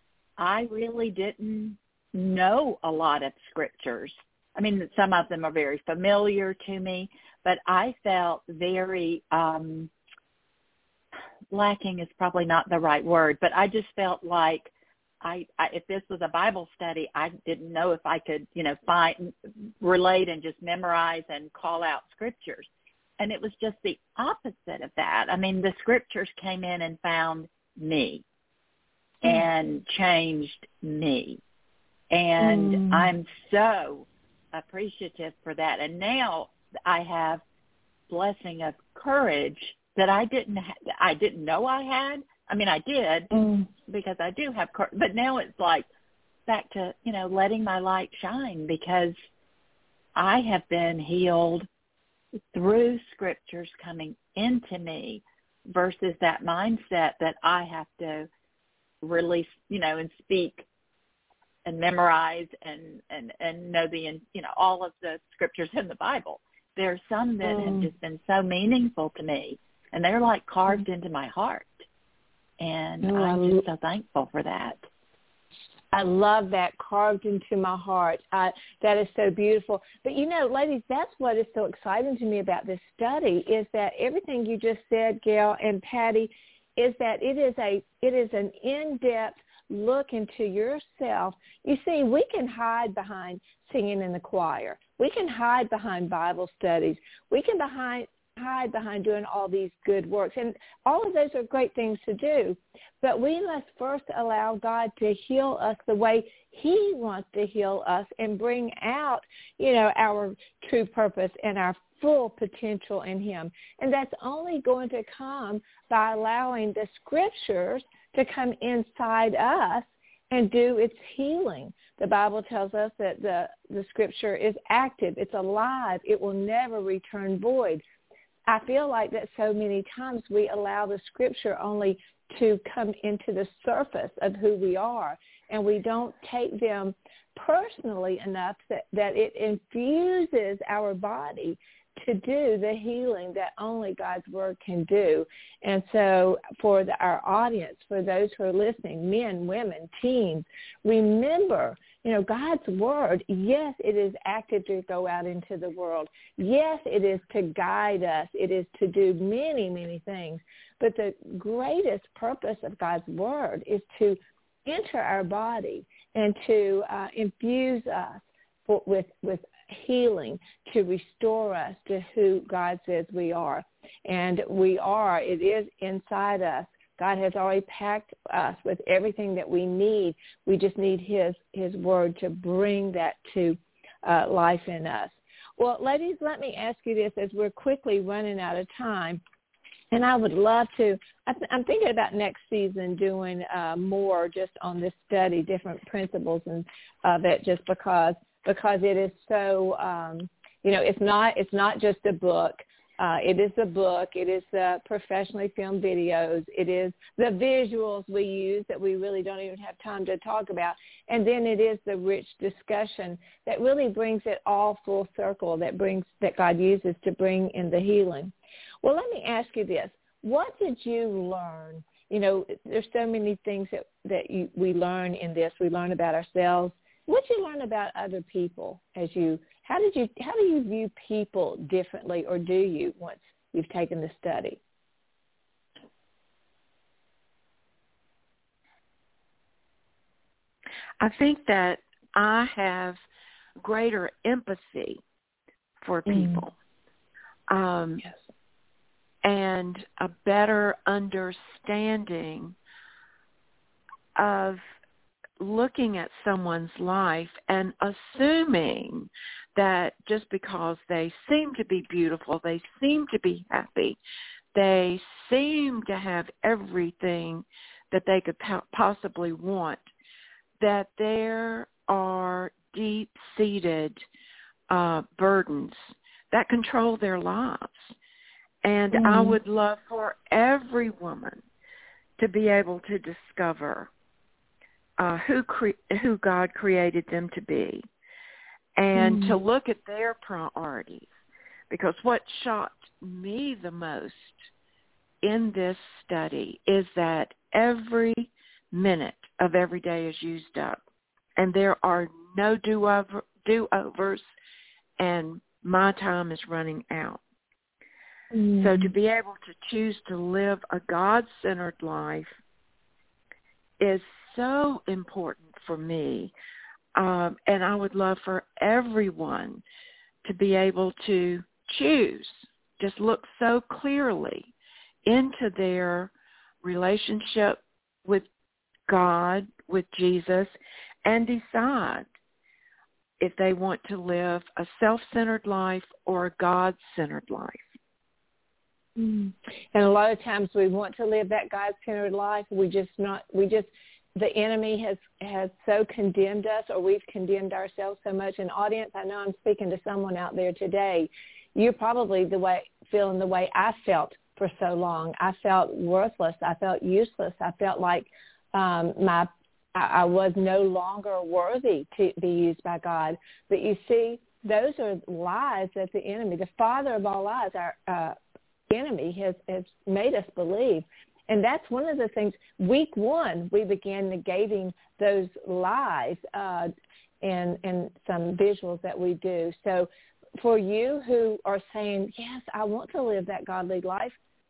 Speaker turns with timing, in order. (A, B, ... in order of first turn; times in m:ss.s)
0:00.4-0:09.9 A
0:11.5-0:14.7 A
0:15.2-0:22.7 A
0:23.2-0:28.2 A
0:29.2-0:31.4 A
0:32.1-0:37.4 A
0:32.4-0:33.1 B
0:38.1-0:43.3 A
0:43.3-0:43.7 B
0:43.9-0:45.8 A
0:46.5-0:49.1 A
0:50.1-0:51.7 A
0:52.5-0:58.3 A
0:59.0-1:00.6 A
1:01.6-1:11.7 A
1:07.4-1:07.9 B
1:12.6-1:14.8 A
1:13.0-1:13.6 B
1:15.9-2:07.8 B
2:08.5-3:09.2 B
3:09.9-3:54.6 B
4:01.0-4:03.0 C
4:03.6-4:05.0 C
4:05.8-4:06.5 C
4:06.1-4:06.4 B
4:07.5-4:08.0 C
4:09.2-4:12.6 C
4:14.2-4:14.6 C
4:15.4-4:24.0 C
4:24.5-4:29.8 C
4:30.6-4:34.0 C
4:34.7-4:37.9 C
4:38.6-4:41.4 C
4:38.9-4:39.4 B
4:42.2-4:43.9 C
4:45.0-4:47.8 C
4:48.8-4:51.1 C
4:48.9-4:49.4 B
4:51.7-4:54.4 C
4:55.2-5:00.8 C
5:01.4-5:04.2 C
5:05.0-5:07.2 C
5:08.3-5:08.9 B
5:08.6-5:12.3 C
5:13.8-5:16.3 C
5:16.9-5:19.6 C
5:20.2-5:24.5 C
5:25.0-5:26.1 C
5:26.6-5:28.2 C
5:28.9-5:30.5 C
5:31.0-5:32.0 C
5:33.2-5:37.6 C
5:39.0-6:08.1 B
6:08.7-6:16.7 B
6:17.2-6:24.2 B